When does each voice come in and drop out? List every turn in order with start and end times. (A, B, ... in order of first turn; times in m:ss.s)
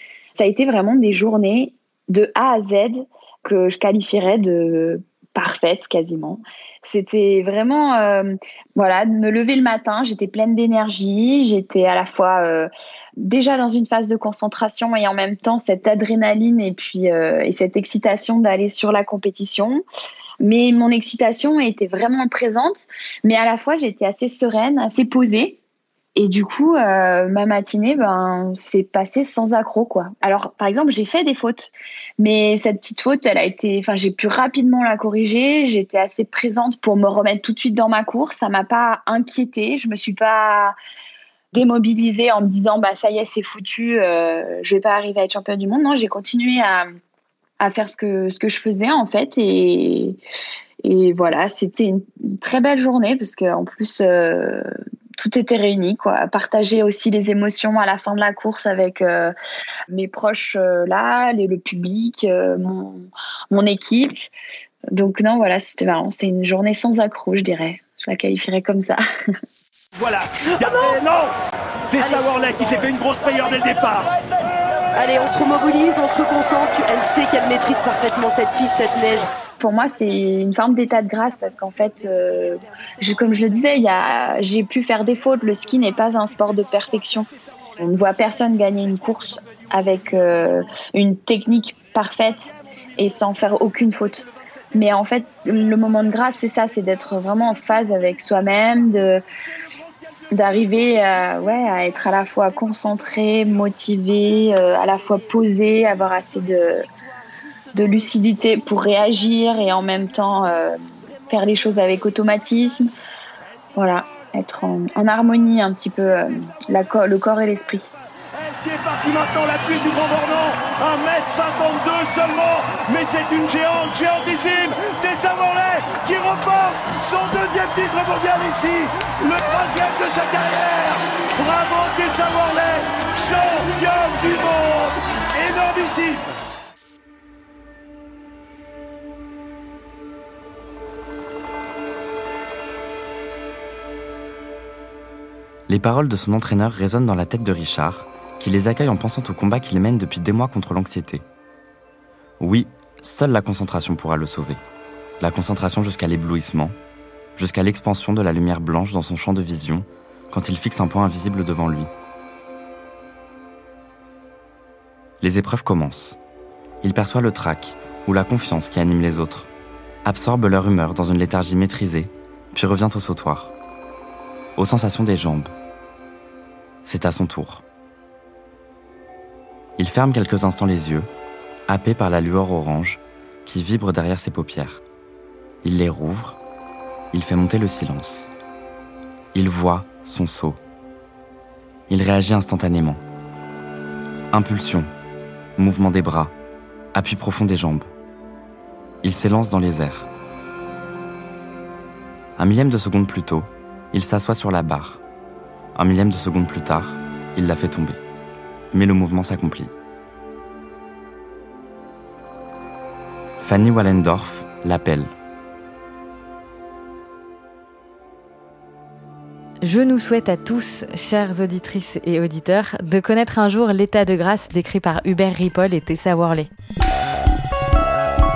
0:00.4-0:19.8 A
0:20.4-0:25.6 A
0:26.2-0:40.8 A
0:41.5-0:46.9 A
0:47.6-0:50.2 A
0:50.8-0:59.3 A
0:59.9-1:04.2 A
1:04.9-1:09.0 A
1:09.9-1:11.4 B
1:10.6-1:11.0 C
1:11.9-1:14.1 B
1:15.0-1:19.3 C
1:19.6-1:27.3 A
1:27.8-1:39.2 A
1:40.3-1:46.8 A
1:47.7-1:52.9 A
1:53.8-1:57.9 A
1:58.4-2:16.3 B
2:25.7-2:31.2 D
2:32.4-2:34.6 D
2:35.2-2:36.8 D
2:37.4-2:41.9 D
2:45.2-2:46.2 D
2:46.8-2:49.5 D
2:50.0-2:53.5 D
2:54.6-2:55.5 D
2:56.8-2:57.6 D
2:59.8-3:01.1 D
3:01.7-3:04.8 D
3:05.6-3:06.4 D
3:07.1-3:08.3 D
3:09.3-3:10.6 D
3:11.9-3:13.0 D
3:14.3-3:14.9 D
3:15.6-3:16.3 D
3:16.9-3:17.9 D
3:19.0-3:20.1 D
3:22.4-3:25.0 D
3:25.8-3:28.0 D
3:28.7-3:29.7 D
3:33.4-3:35.1 D
3:39.6-3:46.5 E